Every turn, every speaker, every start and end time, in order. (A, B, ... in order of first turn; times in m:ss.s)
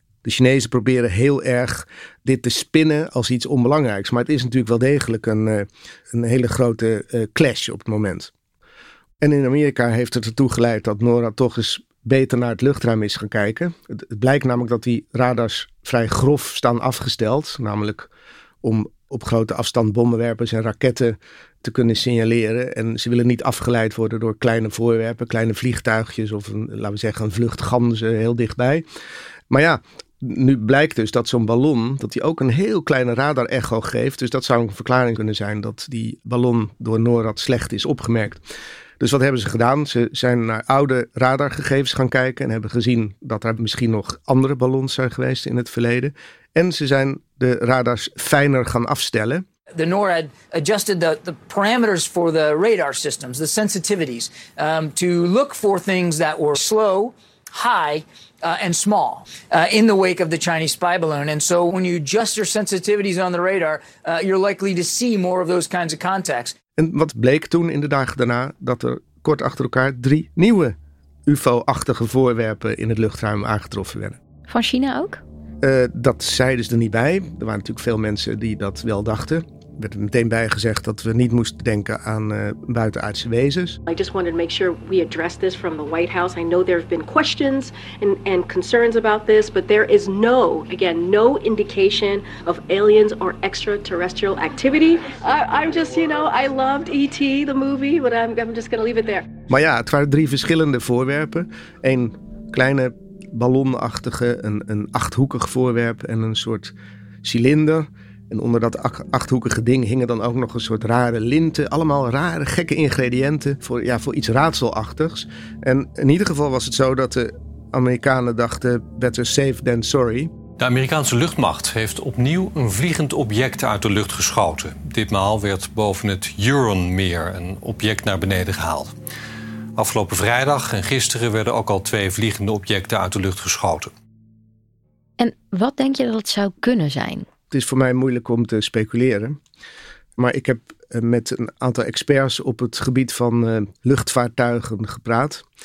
0:00.2-0:08.3 A
0:09.2-0:18.1 A
0:18.6-0:28.8 A
0:29.5-0:38.4 A
0:39.0-0:49.4 A
0:49.7-1:06.5 B
1:06.8-1:10.7 A
1:11.3-1:14.2 A
1:14.5-1:15.2 C
1:15.6-1:23.8 A
1:23.9-1:39.3 D
1:39.5-2:00.3 A
2:00.6-2:08.9 E
2:09.8-2:13.9 E
2:15.2-2:17.2 C
2:17.5-2:19.4 A
2:20.2-2:25.4 A